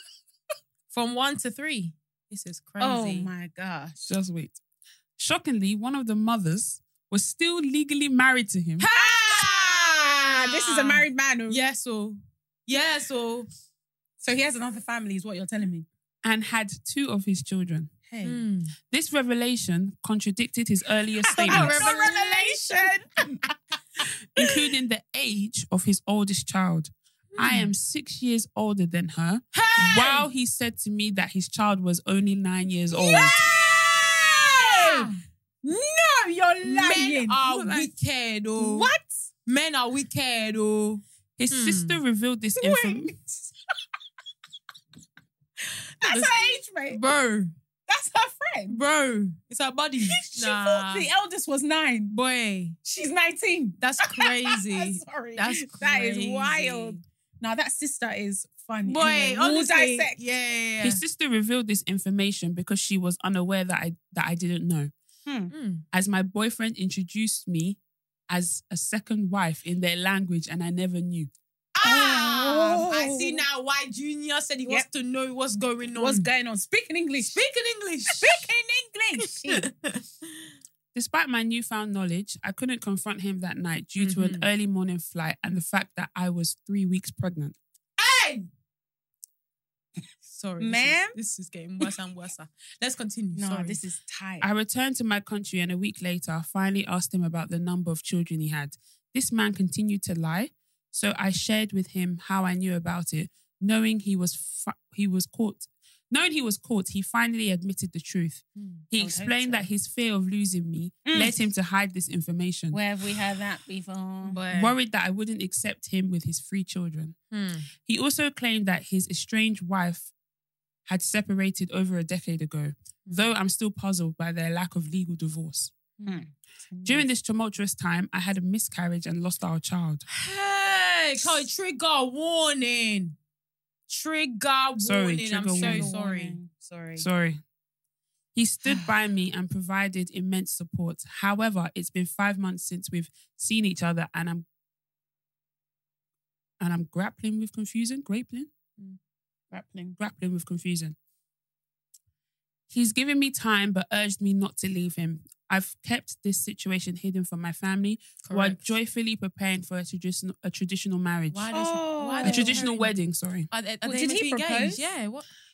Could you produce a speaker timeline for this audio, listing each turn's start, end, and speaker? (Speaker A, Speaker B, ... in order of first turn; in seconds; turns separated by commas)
Speaker A: 0.9-3.3, Speaker B: 2.8-4.0, Speaker C: 4.0-4.5, Speaker C: 5.2-8.9, Speaker A: 8.8-13.5, Speaker B: 8.9-11.6, Speaker B: 14.2-15.8, Speaker C: 16.2-17.9, Speaker B: 18.1-18.4, Speaker A: 18.2-18.7, Speaker C: 18.9-21.9, Speaker B: 21.3-23.4, Speaker A: 21.4-22.9, Speaker C: 24.4-33.3, Speaker A: 27.3-27.7, Speaker A: 29.5-30.3, Speaker B: 33.1-37.4, Speaker A: 33.1-35.1, Speaker A: 36.6-38.9, Speaker C: 37.4-37.9, Speaker B: 38.6-39.1, Speaker A: 39.5-42.0, Speaker C: 41.4-43.1, Speaker B: 42.5-43.5, Speaker B: 46.0-47.0, Speaker A: 46.0-47.5, Speaker B: 47.9-48.8, Speaker A: 48.7-51.1, Speaker B: 50.1-52.1, Speaker A: 52.1-52.8, Speaker B: 52.8-60.1, Speaker A: 53.8-57.0, Speaker A: 58.8-61.0, Speaker C: 60.8-64.9, Speaker B: 65.2-65.5, Speaker A: 65.5-65.8, Speaker C: 65.9-71.3, Speaker A: 71.7-76.3, Speaker B: 71.8-73.4, Speaker B: 75.9-77.4, Speaker A: 77.2-78.5, Speaker B: 78.1-79.7, Speaker A: 79.2-80.5, Speaker C: 80.9-87.5, Speaker A: 84.0-84.5, Speaker A: 88.0-88.5, Speaker A: 90.3-93.8, Speaker B: 90.6-91.1, Speaker B: 93.3-94.5, Speaker C: 94.4-112.8, Speaker A: 108.5-108.9, Speaker B: 109.0-109.7, Speaker B: 111.0-111.4, Speaker B: 112.7-114.4, Speaker A: 114.2-114.8, Speaker C: 114.5-117.2, Speaker A: 117.3-117.7, Speaker C: 117.8-120.1, Speaker C: 120.9-125.7, Speaker A: 126.0-126.2, Speaker B: 126.0-127.0, Speaker C: 126.8-130.0, Speaker A: 130.1-133.2, Speaker A: 133.9-136.4, Speaker C: 134.8-135.9, Speaker B: 135.5-137.1, Speaker C: 136.9-137.4, Speaker C: 138.3-144.4, Speaker C: 146.6-148.5, Speaker B: 149.5-150.0, Speaker C: 150.0-150.9, Speaker C: 152.7-161.5, Speaker A: 158.2-158.8, Speaker A: 161.3-162.9, Speaker B: 161.5-162.7, Speaker C: 162.2-163.5, Speaker A: 163.5-165.3, Speaker B: 163.8-164.9